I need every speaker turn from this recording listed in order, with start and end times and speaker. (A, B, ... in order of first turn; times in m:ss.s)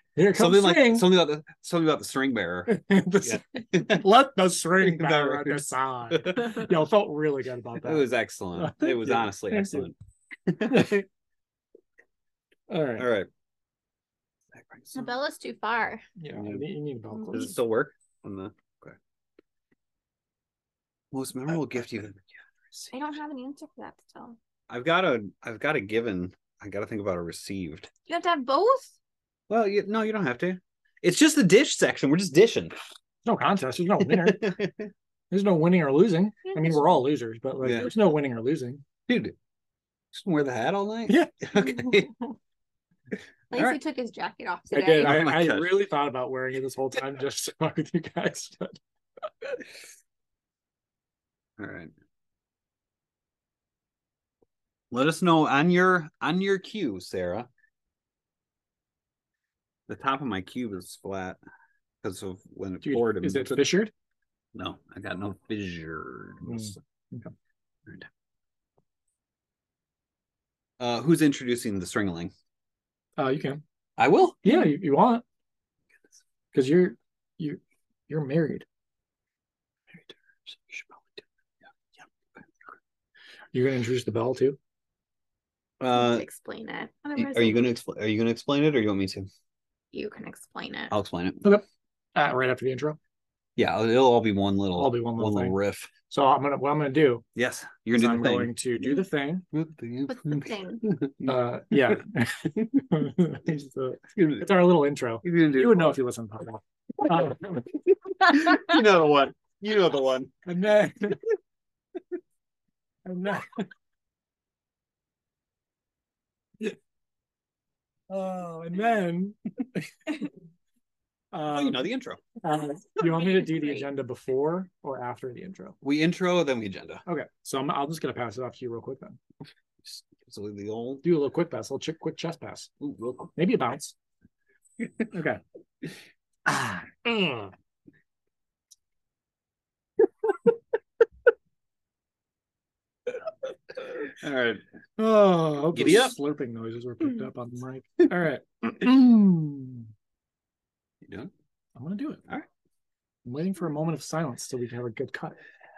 0:00.2-0:01.1 A
0:00.3-0:04.0 B
0:02.7-0:09.9 A
0:04.8-0:06.6 B
0:07.8-0:09.9 B
0:10.5-0:11.0 B
0:10.7-0:11.0 A
0:12.7-0:13.1 A
0:13.0-0:13.3 B
0:14.5-0:15.1 B
0:14.9-0:16.0 C
0:16.2-0:17.5 A
0:16.4-0:16.6 B
0:17.2-0:17.4 C
0:17.3-0:19.0 B
0:21.1-0:22.9 B
0:22.9-0:24.4 C
0:24.7-0:27.9 B
0:28.1-0:29.0 C
0:29.5-0:32.7 B
0:33.2-0:34.5 A
0:34.0-0:34.9 B
0:35.3-0:38.8 A
0:36.5-0:36.9 C
0:37.6-0:37.9 B
0:39.1-0:39.4 B
0:40.1-0:42.1 B
0:41.1-0:42.4 A
0:43.5-0:45.2 C
0:43.5-0:43.8 B
0:44.7-0:48.8 A
0:45.0-0:45.8 B
0:51.6-0:51.9 B
0:54.9-0:57.5 B
0:59.9-1:01.4 B
1:02.0-1:03.7 B
1:02.8-1:03.9 A
1:04.6-1:06.8 B
1:06.4-1:07.3 A
1:10.8-1:12.3 B
1:13.2-1:13.6 A
1:14.0-1:14.4 B
1:14.4-1:15.2 A
1:16.5-1:18.7 A
1:20.5-1:21.2 B
1:23.5-1:24.6 A
1:25.8-1:26.3 B
1:25.9-1:27.7 C
1:27.2-1:29.3 B
1:29.9-1:30.9 C
1:30.9-1:31.4 B
1:31.4-1:33.0 A
1:33.6-1:35.9 B
1:34.7-1:35.6 A
1:36.1-1:37.2 A
1:37.4-1:39.0 B
1:37.9-1:39.5 A
1:39.5-1:41.4 B
1:40.1-1:40.8 C
1:41.3-1:47.7 A
1:44.2-1:44.5 B
1:45.2-1:46.0 B
1:48.1-1:50.3 B
1:48.3-1:48.6 C
1:50.5-1:51.2 A
1:53.1-1:53.7 A
1:58.1-1:59.9 A
2:01.3-2:01.8 A
2:01.5-2:02.2 B
2:02.4-2:05.8 A
2:03.1-2:03.9 C
2:05.8-2:07.0 B
2:07.1-2:09.2 A
2:09.9-2:11.0 B
2:11.0-2:12.7 A
2:12.8-2:13.3 B
2:13.4-2:14.0 A
2:14.8-2:15.1 B
2:15.1-2:15.4 A
2:16.5-2:17.5 A
2:23.8-2:24.6 B
2:25.0-2:29.9 A
2:25.8-2:26.2 B
2:31.0-2:31.3 B
2:31.8-2:32.2 A
2:33.2-2:35.4 A